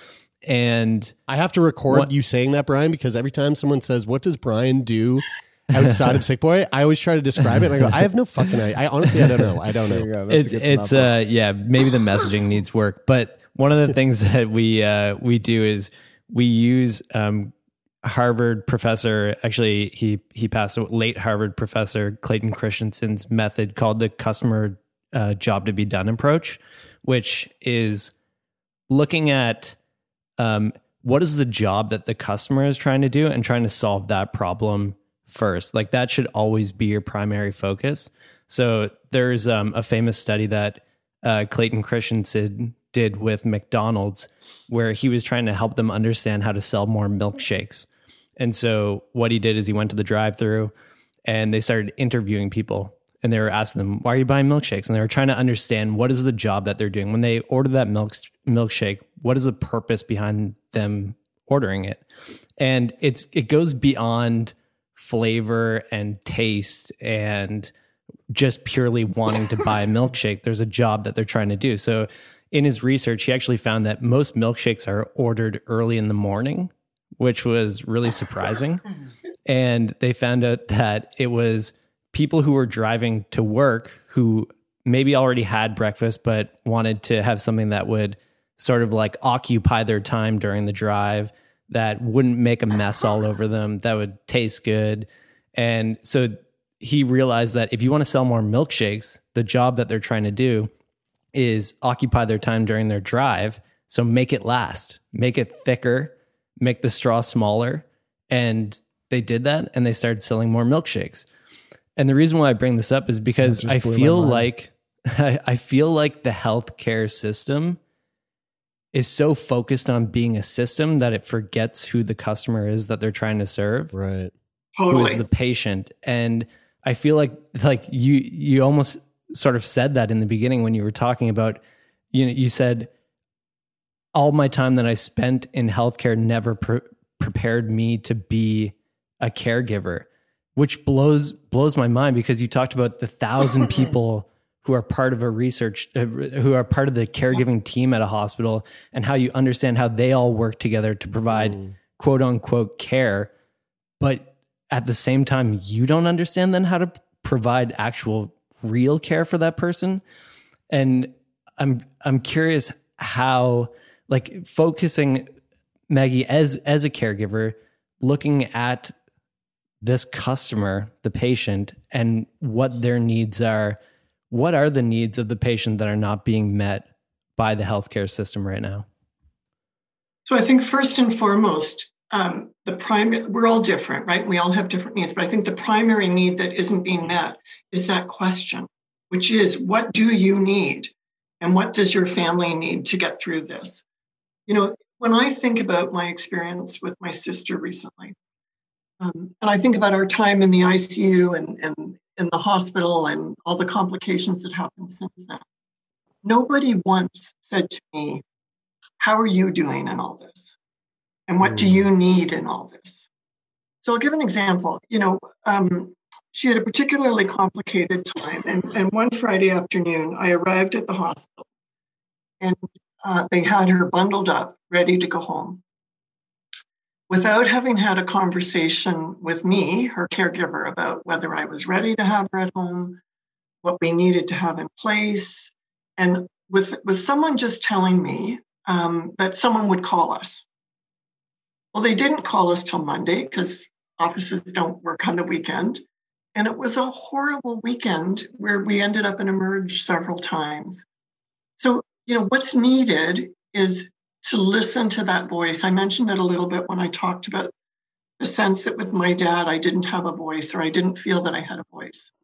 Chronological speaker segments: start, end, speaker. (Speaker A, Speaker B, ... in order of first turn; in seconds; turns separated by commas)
Speaker A: 0.5-1.1, Speaker B: 1.3-10.1, Speaker C: 9.9-11.2, Speaker A: 10.3-28.1, Speaker A: 28.9-29.8, Speaker A: 30.4-47.9, Speaker A: 48.4-50.7, Speaker A: 51.3-62.0, Speaker A: 62.6-67.7, Speaker A: 68.3-78.8, Speaker A: 79.5-100.7, Speaker A: 101.3-111.3, Speaker A: 112.0-117.8, Speaker C: 113.4-114.5, Speaker A: 118.9-123.9, Speaker B: 123.9-124.3, Speaker D: 124.8-125.3, Speaker A: 124.9-131.6, Speaker A: 132.1-132.9, Speaker A: 134.2-153.3, Speaker B: 151.3-151.8, Speaker A: 154.0-160.0, Speaker A: 160.7-165.3, Speaker A: 165.9-168.9, Speaker A: 169.8-173.8, Speaker A: 174.3-178.9, Speaker D: 180.3-193.8, Speaker D: 194.5-198.2, Speaker D: 199.0-205.4, Speaker D: 206.2-208.2, Speaker D: 209.0-210.6, Speaker D: 211.3-213.1, Speaker B: 211.4-211.9, Speaker D: 213.8-221.5, Speaker D: 222.4-225.6, Speaker D: 227.1-233.0, Speaker D: 233.6-240.4, Speaker D: 241.7-245.8, Speaker D: 246.3-250.8, Speaker D: 251.6-257.5, Speaker D: 258.2-262.1